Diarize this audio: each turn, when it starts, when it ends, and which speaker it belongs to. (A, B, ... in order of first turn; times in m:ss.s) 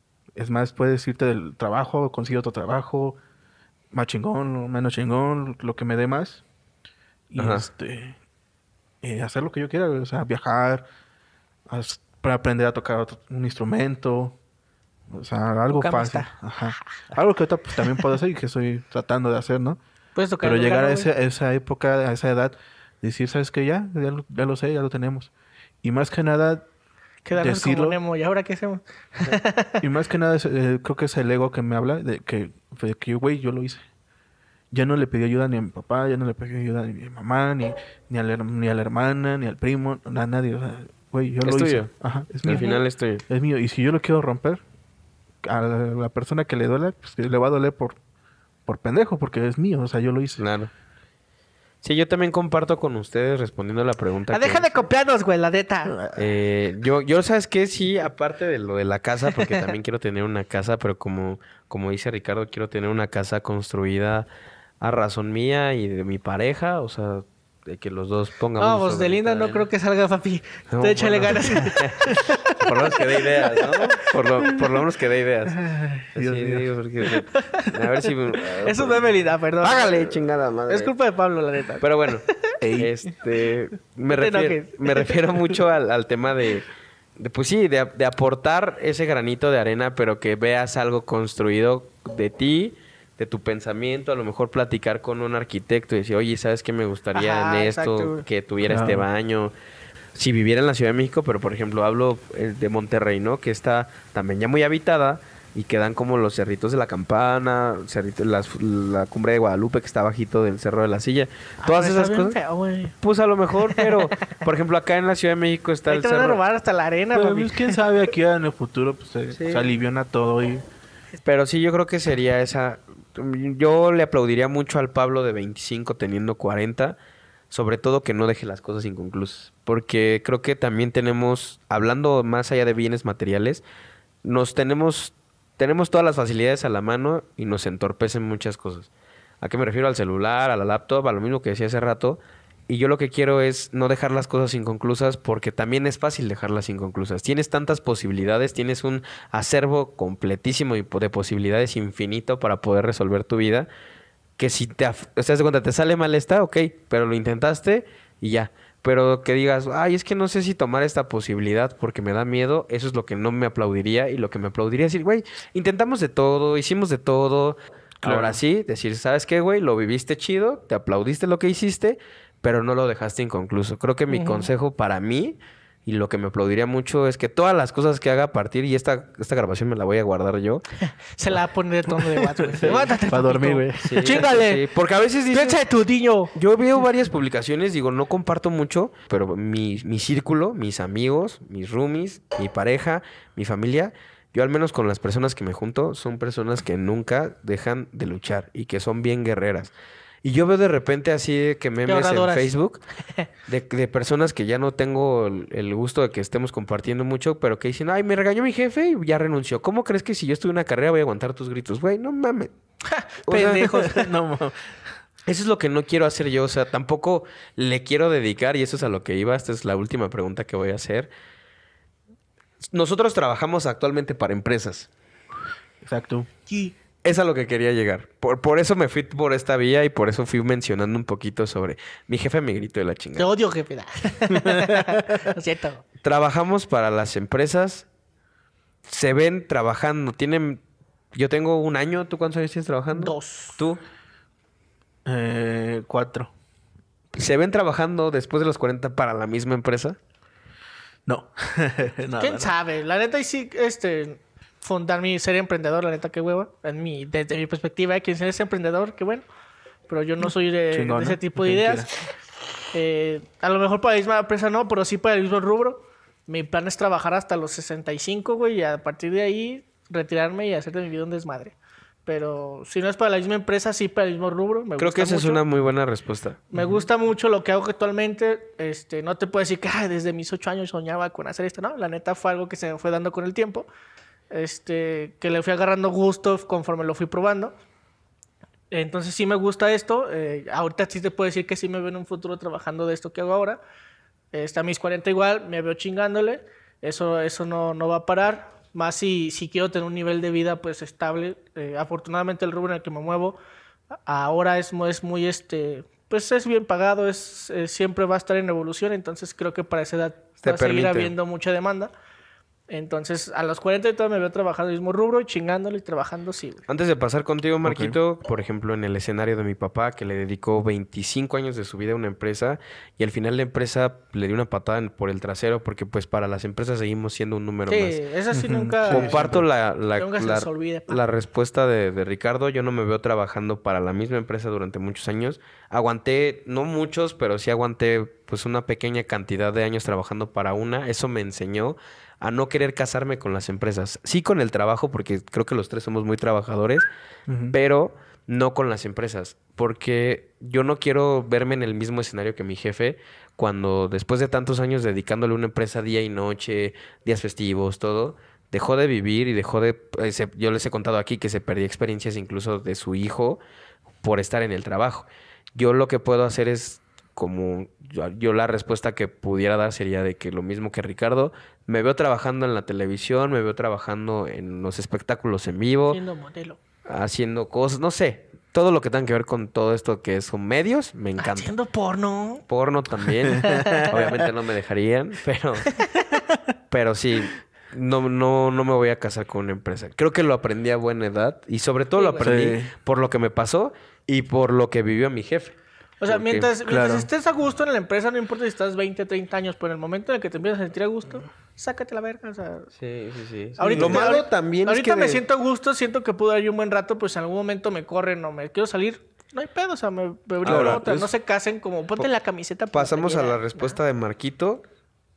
0:00.4-0:03.2 A
0:03.9-0:06.4 A
0:07.3-0:08.2 A
0:07.4-0:07.7 B
0:09.0-0:10.9 A
0:11.7-0:14.4 A
0:15.1-0:19.8 A
0:15.7-0:16.8 C
0:20.2-0:21.1 C
0:20.4-0:25.3 A
0:25.8-0:26.7 A
0:27.2-0:29.8 C
0:27.4-0:28.0 A
0:29.8-0:33.8 A
0:34.7-0:42.7 A
0:41.4-0:43.2 B
0:42.5-0:42.8 C
0:43.3-0:44.6 A
0:45.4-0:48.0 A
0:48.7-0:50.4 A
0:50.4-0:50.7 B
0:51.8-0:54.9 B
0:54.3-0:56.0 C
0:55.9-0:56.3 A
0:56.2-1:04.3 B
1:04.8-1:09.6 B
1:08.6-1:13.9 C
1:10.7-1:15.6 B
1:15.6-1:16.7 A
1:16.2-1:20.9 B
1:17.2-1:17.7 C
1:18.6-1:21.8 C
1:21.8-1:22.2 B
1:22.6-1:22.9 A
1:22.8-1:26.7 B
1:24.1-1:25.2 C
1:27.2-1:39.5 B
1:37.1-1:38.2 C
1:38.6-1:39.1 A
1:40.2-1:52.4 B
1:51.6-1:52.9 C
1:53.0-1:56.4 B
1:53.7-1:54.0 C
1:55.9-1:57.8 C
1:57.1-2:00.6 A
1:59.3-1:59.7 B
2:01.2-2:07.0 B
2:07.5-2:13.6 B
2:14.2-2:18.9 B
2:19.4-2:33.7 B
2:34.4-3:00.6 B
2:48.0-2:48.4 A
2:54.1-2:54.5 C
3:01.2-3:04.6 C
3:01.9-3:04.2 A
3:02.6-3:02.9 B
3:03.8-3:05.6 B
3:05.3-3:06.3 C
3:06.3-3:19.7 B
3:20.2-3:22.8 B
3:21.9-3:22.5 C
3:23.5-3:32.5 B
3:32.9-3:34.1 C
3:33.3-3:33.7 B
3:33.6-3:34.9 A
3:35.3-3:41.1 B
3:42.7-3:44.9 B
3:45.8-3:46.3 A
3:46.5-3:46.8 C
3:47.0-3:53.3 B
3:53.2-3:55.8 C
3:54.5-3:55.0 A
3:56.0-3:57.9 B
3:58.9-4:00.6 B
4:01.1-4:03.8 B
4:03.0-4:03.6 C
4:05.0-4:06.3 A
4:07.1-4:10.0 B
4:11.1-4:12.5 A
4:12.2-4:19.3 C
4:19.9-4:21.9 C
4:20.2-4:21.9 A
4:22.7-4:31.6 C
4:32.1-4:35.4 C
4:34.8-4:36.4 B
4:36.5-4:43.7 C
4:36.5-4:36.8 A
4:44.3-4:47.5 C
4:48.7-4:53.6 C
4:54.3-5:03.4 C
5:04.1-5:11.9 C
5:10.4-5:11.1 B
5:12.7-5:16.6 C
5:16.7-5:28.0 B
5:17.6-5:18.0 A
5:27.7-5:29.4 C
5:28.3-5:29.4 A
5:28.9-5:46.9 B
5:30.0-5:31.0 C
5:47.3-5:47.6 A
5:47.5-6:03.4 B
6:04.0-6:16.0 B
6:15.9-6:16.6 C
6:16.9-6:21.5 B
6:21.2-6:22.4 C
6:22.5-6:25.8 B
6:23.4-6:24.2 C
6:26.7-6:36.5 B
6:32.0-6:32.2 C
6:32.2-6:32.7 A
6:36.0-6:42.7 C
6:36.7-6:37.1 A
6:42.8-6:45.2 B
6:43.6-6:53.8 C
6:43.6-6:44.2 A
6:50.4-6:51.1 A
6:50.4-6:50.8 B
6:52.7-6:54.6 B